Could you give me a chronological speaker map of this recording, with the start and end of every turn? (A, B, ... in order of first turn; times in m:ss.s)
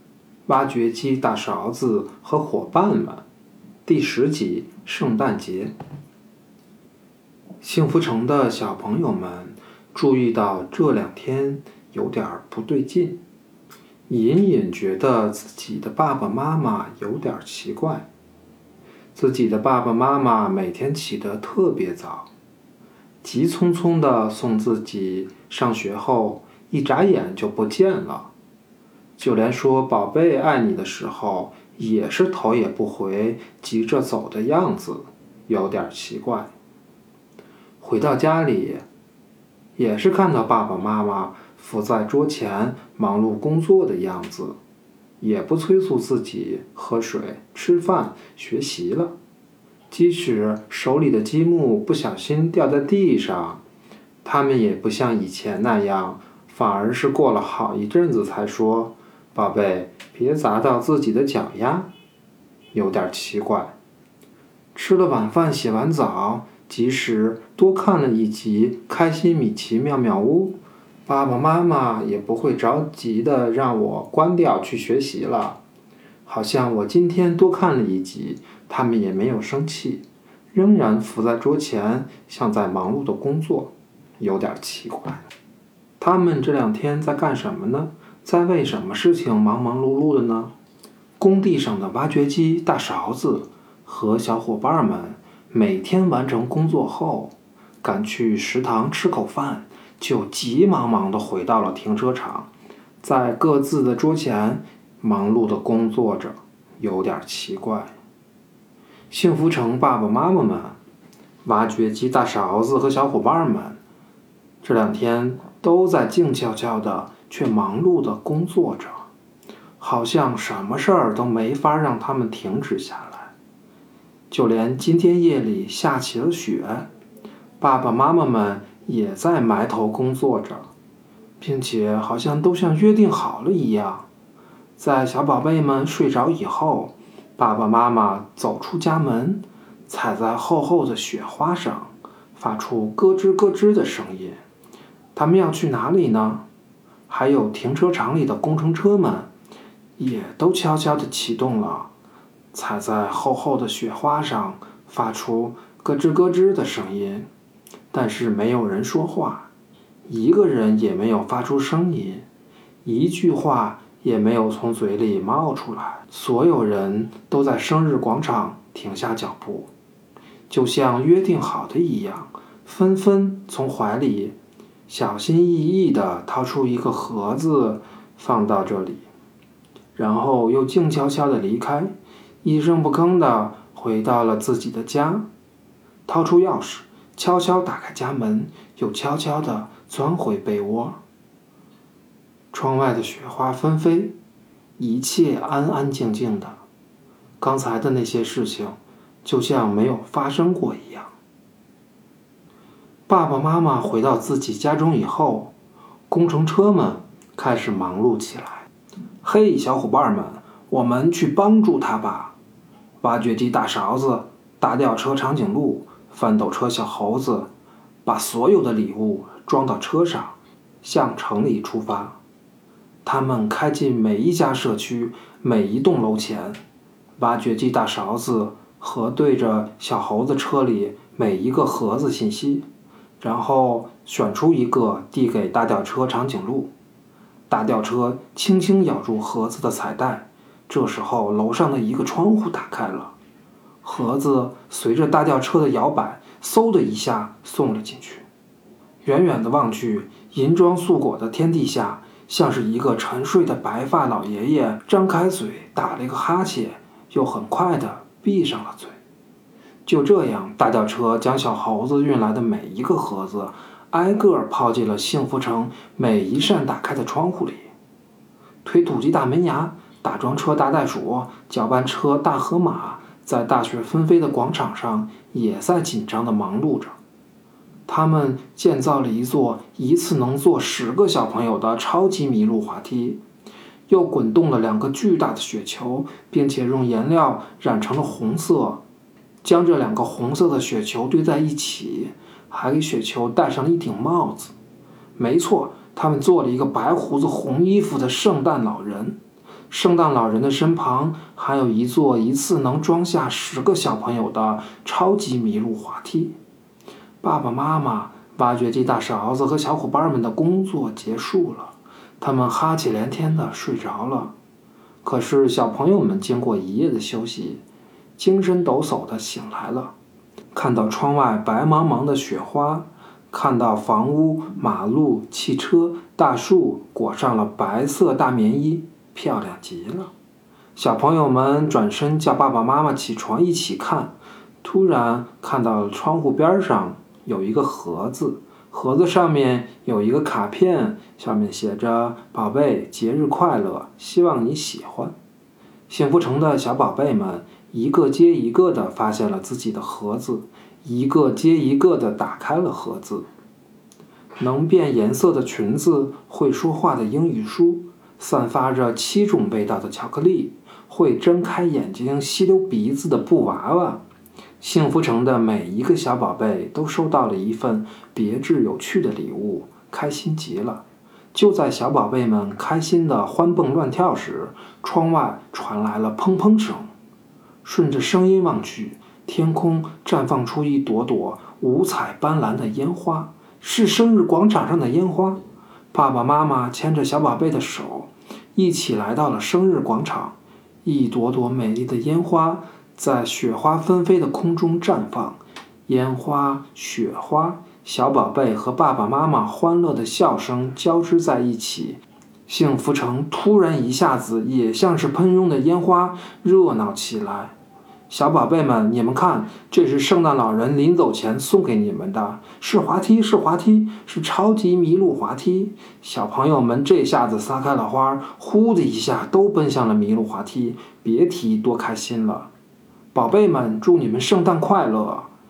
0:00.4-0:03.2 A
0:03.8-0:05.7 A
0:07.6-0:13.2 A
0:14.1-0:18.1 A
0:19.1-0:22.3 A
0:23.2-0:28.3 A
0:29.2-0:36.5 A
0:37.8-0:38.8 A
0:39.8-0:44.6 A
0:45.2-0:49.1 A
0:49.9-0:53.6 A
0:54.2-1:01.9 A
1:02.7-1:03.8 A
1:04.7-1:15.6 A
1:16.2-1:25.2 A
1:26.0-1:30.5 A
1:31.2-1:42.5 A
1:43.0-1:47.9 A
1:49.1-1:50.8 A
1:51.4-1:53.8 A
1:54.6-1:59.1 A
1:59.8-2:03.3 A
2:04.3-2:06.9 A
2:07.6-2:10.7 A
2:11.4-2:14.0 A
2:14.8-2:24.4 A
2:25.1-2:26.4 A
2:27.1-2:29.3 A
2:30.0-2:31.9 A
2:32.5-2:37.3 A
2:37.9-2:39.5 A
2:40.1-2:42.2 A
2:42.8-2:49.7 A
2:50.5-2:54.3 A
2:54.9-2:59.0 A
2:59.9-3:01.9 A
3:02.4-3:05.3 A
3:06.0-3:11.0 A
3:12.5-3:14.2 A
3:14.8-3:16.6 A
3:17.4-3:21.1 A
3:23.1-3:25.5 A
3:26.1-3:28.7 A
3:29.2-3:32.3 A
3:33.0-3:37.5 A
3:38.0-3:42.2 A
3:43.0-3:46.6 A
3:47.2-3:52.6 A
3:53.2-3:56.7 A
3:57.5-4:03.1 A
4:03.8-4:08.2 A
4:09.0-4:19.0 A
4:19.8-4:27.7 A
4:28.6-4:37.0 A
4:37.9-4:43.2 A
4:43.9-4:48.8 A
4:49.4-4:54.5 A
4:55.2-4:59.2 A
4:59.7-5:06.4 A
5:07.2-5:14.3 A
5:15.0-5:17.6 A
5:18.2-5:19.9 A
5:20.5-5:30.1 A
5:30.8-5:45.1 A
5:45.9-5:53.2 A
5:54.4-6:04.0 A
6:04.6-6:16.9 A
6:17.6-6:25.4 A
6:25.9-6:47.5 A
6:48.1-7:02.5 A
7:03.1-7:05.3 A